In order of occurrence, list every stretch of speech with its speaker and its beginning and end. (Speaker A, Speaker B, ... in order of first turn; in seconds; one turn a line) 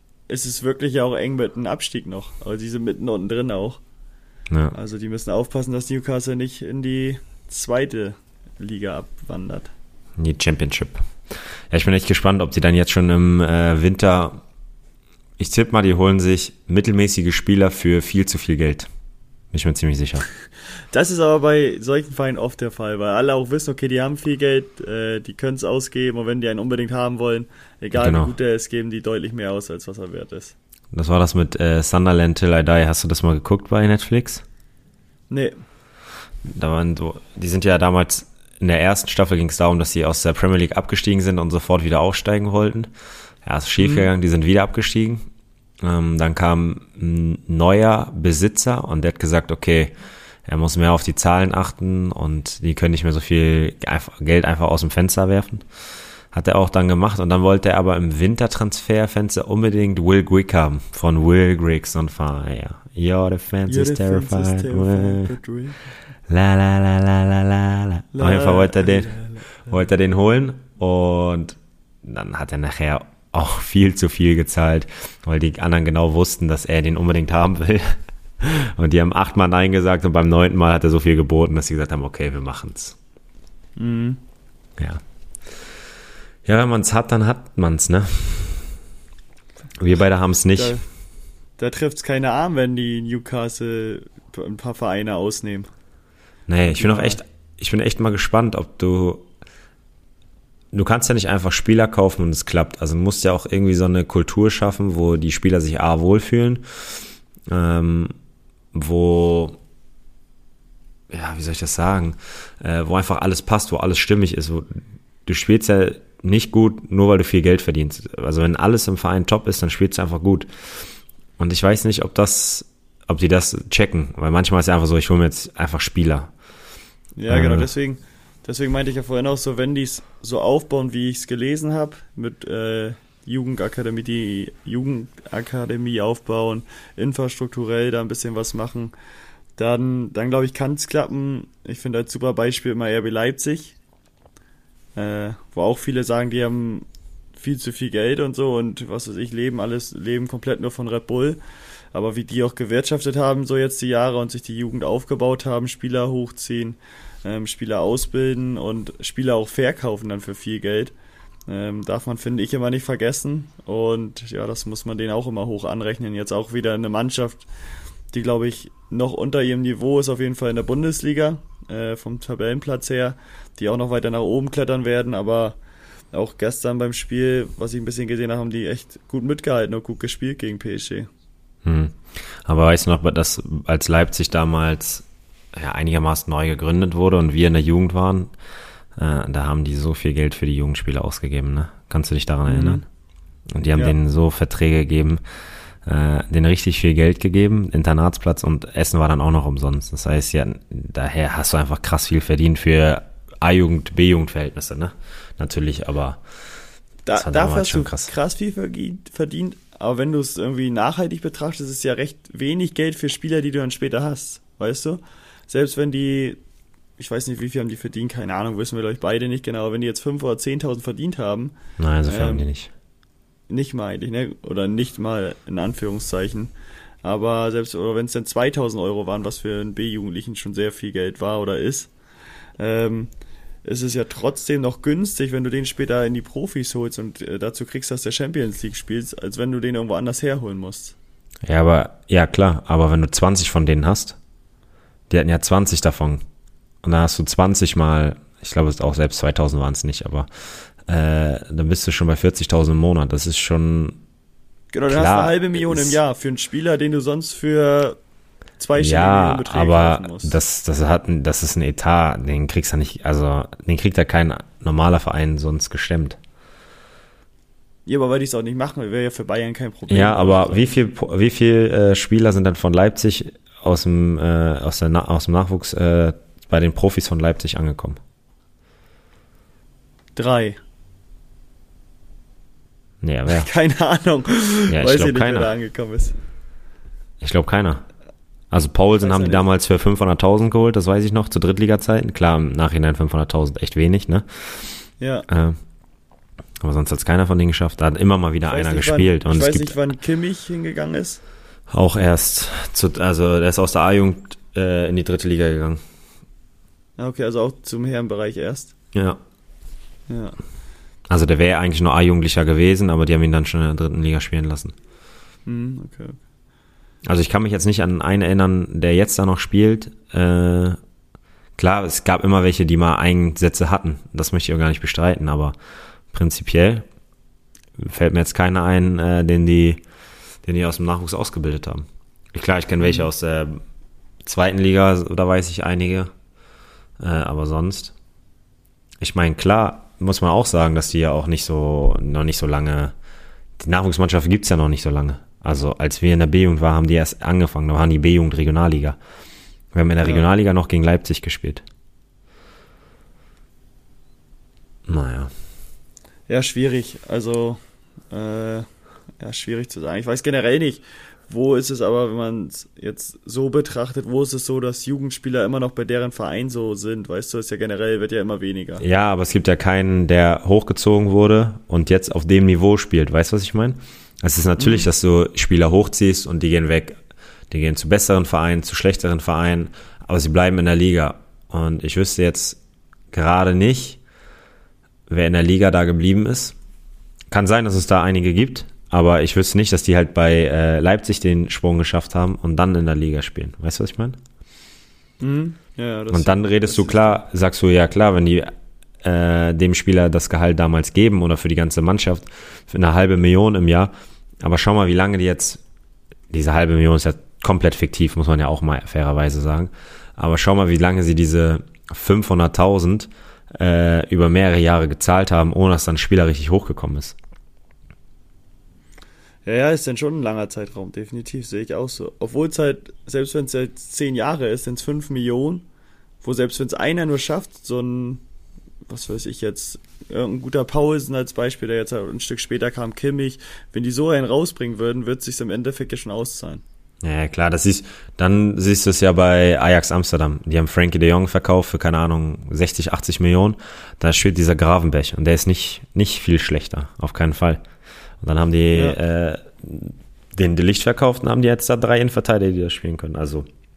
Speaker A: 0.3-3.8
Speaker A: 4.7-9.7
Speaker B: 10.2-11.0
Speaker B: 11.7-14.4
Speaker B: 15.4-18.9
Speaker B: 19.5-20.2
Speaker A: 20.9-30.5
Speaker B: 27.9-28.3
Speaker B: 30.9-34.4
Speaker A: 35.3-35.5
Speaker B: 36.4-42.9
Speaker B: 43.4-45.2
Speaker A: 43.8-44.1
Speaker B: 45.8-49.9
Speaker B: 50.4-65.3
Speaker A: 63.7-65.8
Speaker B: 66.3-83.0
Speaker A: 68.1-69.5
Speaker A: 83.8-84.2
Speaker B: 84.8-85.7
Speaker B: 86.4-88.7
Speaker B: 89.8-90.8
Speaker A: 90.5-90.8
Speaker A: 91.6-95.7
Speaker B: 96.5-99.3
Speaker A: 96.7-97.2
Speaker B: 100.7-108.1
Speaker B: 108.7-109.6
Speaker B: 111.1-126.3
Speaker A: 127.2-138.9
Speaker B: 127.3-127.7
Speaker A: 139.6-143.7
Speaker A: 144.9-146.8
Speaker A: 147.4-151.4
Speaker A: 151.9-160.9
Speaker A: 161.5-167.5
Speaker A: 168.1-175.6
Speaker A: 176.1-181.1
Speaker B: 181.6-188.3
Speaker B: 188.9-192.8
Speaker A: 192.5-192.8
Speaker B: 193.5-206.2
Speaker A: 207.1-216.4
Speaker B: 207.1-208.1
Speaker A: 217.0-221.5
Speaker B: 221.8-222.7
Speaker A: 222.1-222.5
Speaker A: 223.5-226.5
Speaker A: 227.0-231.9
Speaker A: 232.6-233.1
Speaker A: 233.6-240.9
Speaker B: 241.4-244.2
Speaker B: 245.1-246.2
Speaker B: 246.8-254.0
Speaker A: 254.7-258.0
Speaker B: 254.9-256.0
Speaker A: 258.6-260.4
Speaker B: 258.8-266.2
Speaker A: 267.9-270.7
Speaker B: 269.9-278.0
Speaker A: 280.1-280.6
Speaker B: 283.0-283.5
Speaker A: 283.2-286.1
Speaker B: 284.7-285.5
Speaker B: 287.2-287.8
Speaker B: 288.5-295.6
Speaker A: 289.0-289.4
Speaker A: 295.0-295.2
Speaker B: 296.6-299.8
Speaker A: 298.5-301.2
Speaker B: 301.7-305.8
Speaker A: 307.0-308.7
Speaker B: 308.9-309.2
Speaker A: 310.1-310.4
Speaker B: 311.1-314.7
Speaker A: 315.4-316.2
Speaker B: 317.1-320.8
Speaker B: 321.6-325.6
Speaker B: 326.1-326.9
Speaker B: 327.8-329.8
Speaker B: 330.4-333.6
Speaker A: 332.8-333.1
Speaker B: 334.2-336.1
Speaker B: 337.0-337.9
Speaker B: 339.0-342.9
Speaker B: 343.6-349.0
Speaker B: 349.7-351.6
Speaker A: 350.0-350.2
Speaker B: 354.9-355.3
Speaker A: 356.3-357.6
Speaker A: 358.1-358.7
Speaker A: 359.2-368.8
Speaker B: 368.8-377.0
Speaker A: 374.6-374.9
Speaker B: 377.5-382.6
Speaker B: 383.1-384.0
Speaker B: 385.1-386.6
Speaker B: 387.3-394.2
Speaker A: 395.2-397.2
Speaker B: 396.1-405.6
Speaker B: 406.3-417.2
Speaker A: 419.4-425.6
Speaker A: 426.2-428.2
Speaker A: 428.9-436.6
Speaker B: 437.0-447.6
Speaker B: 448.2-453.4